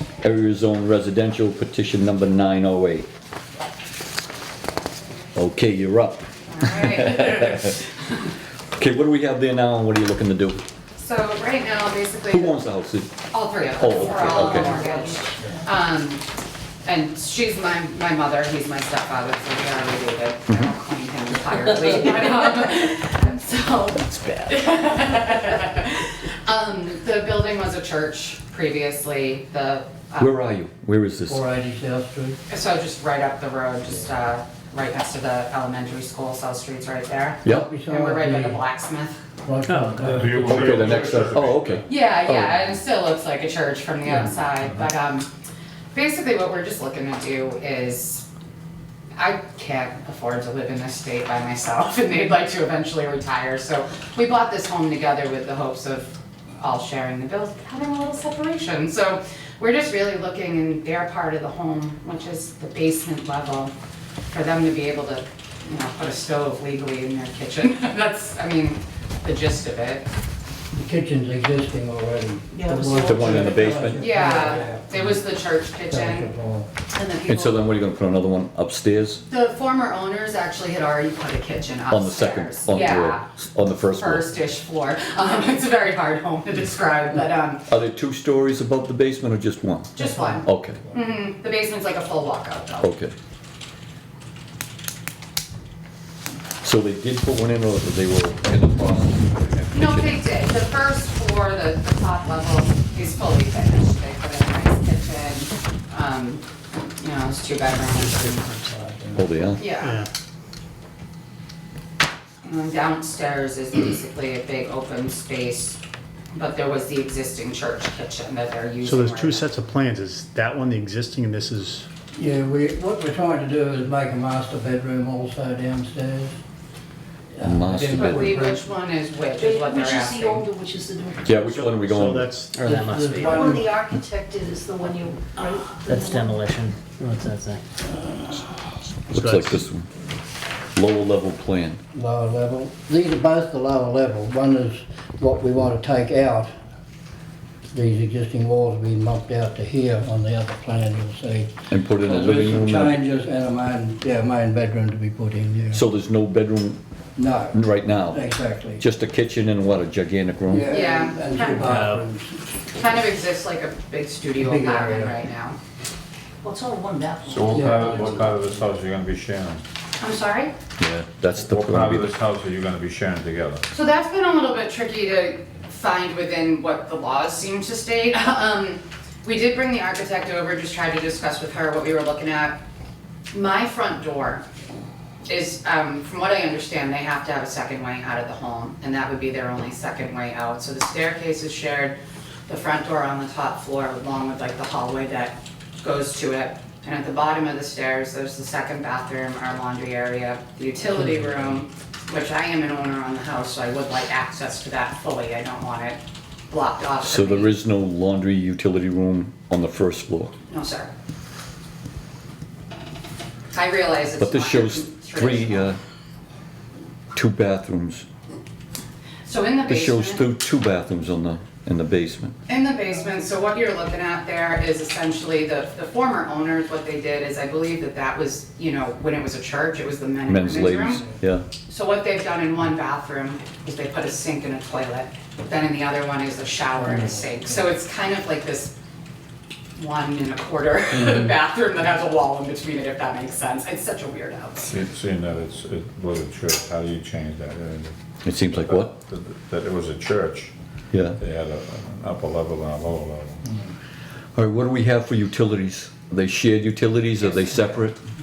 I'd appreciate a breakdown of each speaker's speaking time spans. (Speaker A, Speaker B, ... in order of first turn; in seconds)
Speaker A: 0.2-3.1, 5.3-7.7, 8.8-10.6, 12.3-13.1, 13.8-15.0, 30.2-31.4, 40.5-42.7, 73.0-74.1, 77.3-79.2, 81.9-84.2, 87.7-90.8, 92.8-93.1, 96.6-100.2, 109.1-109.7, 127.4-128.4, 131.2-132.3, 139.1-139.9, 140.8-141.8, 151.7-153.0, 155.7-156.8, 157.5-158.2, 158.8-160.7, 170.8-172.1, 207.0-210.3, 214.2-215.8, 217.1-218.1, 219.7-222.3, 230.3-231.4, 248.2-248.9, 250.9-251.2, 254.3-257.9
Speaker B: 6.5-7.9, 11.0-12.6, 13.3-16.2, 16.8-30.4, 32.5-39.2, 41.9-45.3, 45.9-48.2, 49.2-63.7, 64.3-70.1, 73.9-76.3, 76.9-77.6, 79.3-83.3, 84.0-87.7, 90.0-92.9, 99.7-108.6, 109.6-110.0, 112.4-115.8, 116.3-119.5, 127.9-130.5, 160.7-161.8, 162.8-165.6, 170.0-170.5, 173.7-182.6, 183.3-184.4, 185.3-191.9, 192.5-206.0, 206.5-207.5, 210.5-210.9, 213.5-215.7, 219.2-220.2, 222.5-231.0, 231.7-238.7, 239.8-244.7, 257.3-257.7
Speaker C: 31.3-32.4, 37.5-38.6, 39.4-40.7, 70.7-75.2, 75.9-76.7, 122.1-126.3, 127.3-128.6, 132.6-133.7, 141.9-146.5, 147.7-155.8, 157.2-158.8, 160.5-162.3, 164.4-165.2, 167.5-167.9
Speaker D: 39.7-40.1, 72.5-73.4, 129.4-131.3, 132.5-136.9, 166.4-168.4
Speaker E: 39.8-40.1, 132.6-133.3, 135.8-137.6
Speaker F: 40.1-41.8, 167.2-169.6, 171.4-173.6, 244.6-247.9, 248.5-250.5, 251.2-253.5
Speaker G: 40.5-40.9, 109.8-110.1, 118.8-121.8, 131.4-133.3